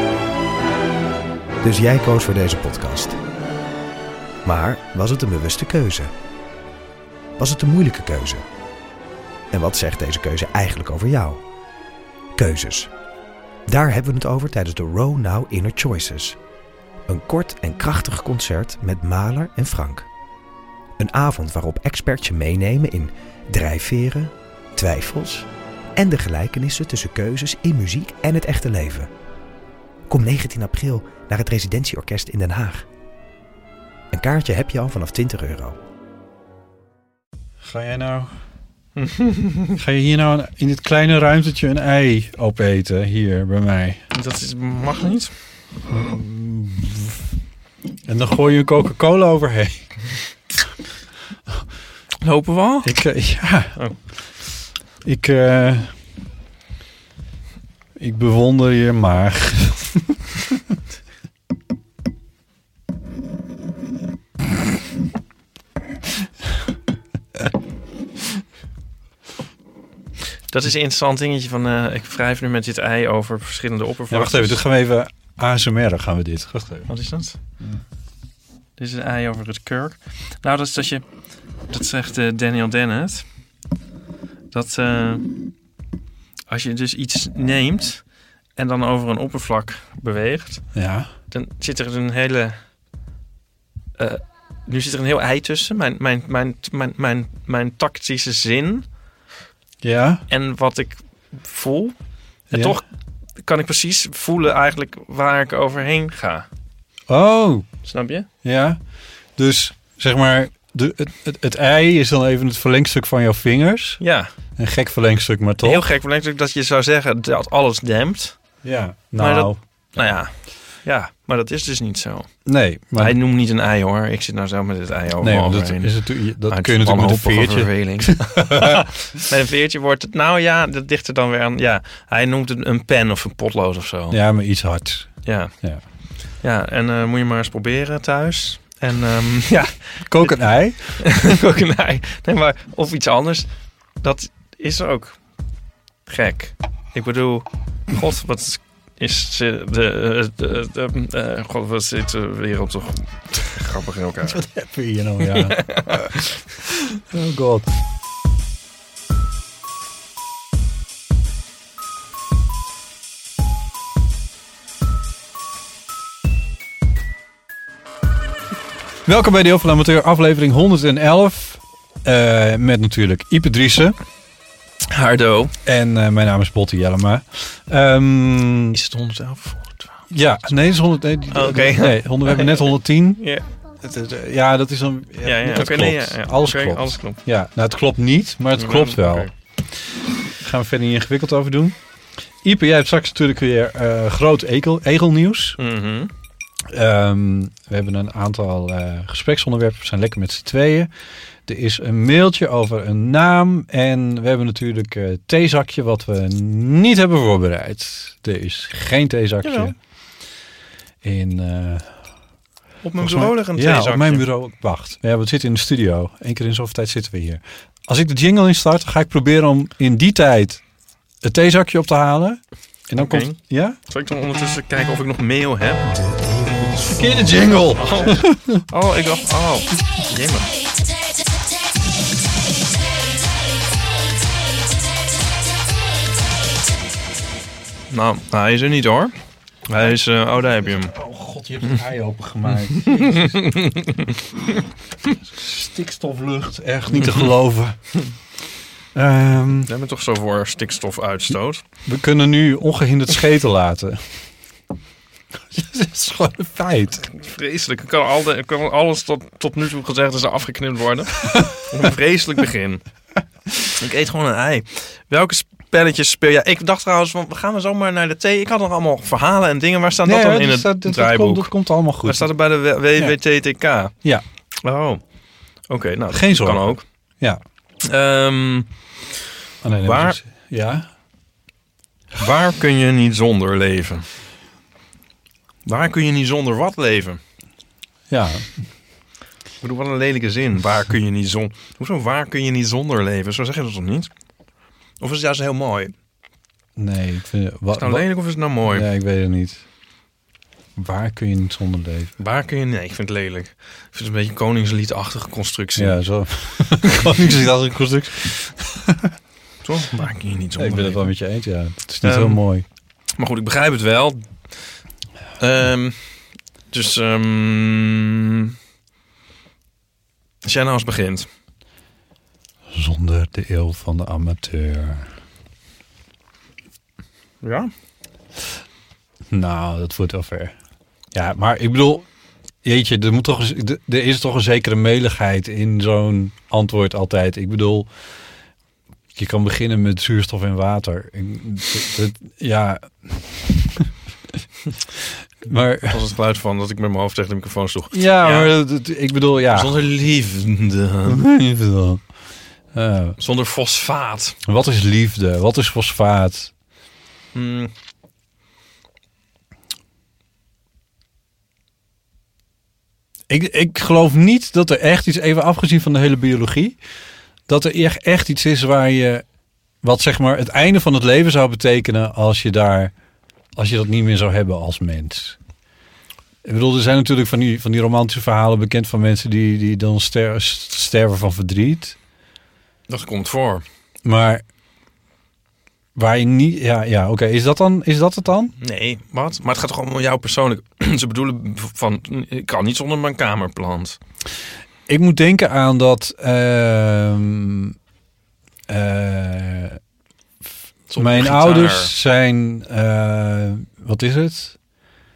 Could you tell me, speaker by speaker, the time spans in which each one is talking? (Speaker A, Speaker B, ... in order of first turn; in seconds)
Speaker A: 1.6-3.2, 4.4-6.1, 7.4-8.4, 9.5-11.4, 12.3-12.9, 13.7-16.4, 17.1-20.1, 21.0-29.1, 30.1-32.9, 34.1-35.8
Speaker B: 37.6-38.3, 39.8-44.0, 45.9-47.2, 48.0-49.9, 52.8-53.8, 55.0-55.9, 58.0-60.6, 74.1-76.9, 90.7-91.1, 99.8-100.2, 102.5-102.8, 107.1-107.7, 108.4-108.8, 109.3-114.0, 114.5-115.8, 118.6-119.6, 122.5-123.2, 125.2-128.9, 134.1-135.8, 140.0-141.1, 154.2-156.1, 156.6-157.7, 169.0-174.0, 175.6-178.8, 180.1-183.2, 183.8-189.3, 190.4-191.8, 192.4-195.6, 196.7-200.9, 201.5-209.7, 211.0-211.9, 213.0-220.6, 221.2-223.8, 226.6-228.6, 240.6-243.4, 245.1-247.9, 248.9-249.7, 251.8-254.2, 255.5-257.1, 270.0-272.3, 276.1-277.4, 279.6-280.9, 288.1-288.6, 296.8-298.1, 298.7-299.6, 300.8-302.1, 305.8-309.1, 310.6-312.6, 322.7-325.1, 329.3-330.5, 331.1-332.1, 332.6-337.9, 339.1-343.9, 345.4-346.0, 347.9-349.8, 351.1-352.0, 352.7-353.2, 354.4-356.5, 363.3-366.8, 367.5-369.2, 369.8-372.9, 373.6-375.4, 376.4-381.9, 384.0-384.4, 385.9-388.5, 394.9-397.7, 398.7-399.8, 401.0-404.6
Speaker C: 39.0-39.8, 44.1-45.3, 52.2-52.9, 70.5-74.6, 76.9-77.4, 78.8-81.0, 81.7-83.2, 84.5-85.3, 86.5-88.0, 88.5-90.7, 91.3-92.6, 94.0-98.9, 100.3-101.9, 102.5-102.8, 103.4-106.5, 107.8-108.2, 114.0-114.3, 115.6-118.4, 119.2-122.3, 123.0-134.2, 135.2-135.5, 136.4-140.3, 141.0-145.2, 146.1-154.4, 155.2-156.2, 174.9-175.5, 178.7-180.1, 181.3-183.4, 185.2-187.2, 188.6-189.3, 195.6-196.1, 209.4-209.7, 212.8-214.2, 223.0-223.3, 223.9-225.8, 227.7-230.5, 237.9-239.1, 239.7-240.9, 242.8-244.1, 246.9-247.3, 249.7-251.6, 257.1-262.8, 263.7-271.5, 272.0-273.9, 274.6-275.0, 275.7-276.8, 277.8-278.7, 279.8-280.2, 282.1-284.1, 285.6-287.2, 289.6-294.1, 295.0-295.9, 297.7-298.9, 302.2-306.0, 306.6-307.2, 309.6-311.1, 312.0-312.4, 313.1-314.3, 315.4-316.2, 316.7-318.5, 320.4-321.3, 327.4-327.7, 345.9-348.5, 349.5-351.2, 353.2-354.4, 357.3-357.7, 382.9-383.6, 388.6-394.0, 400.9-401.9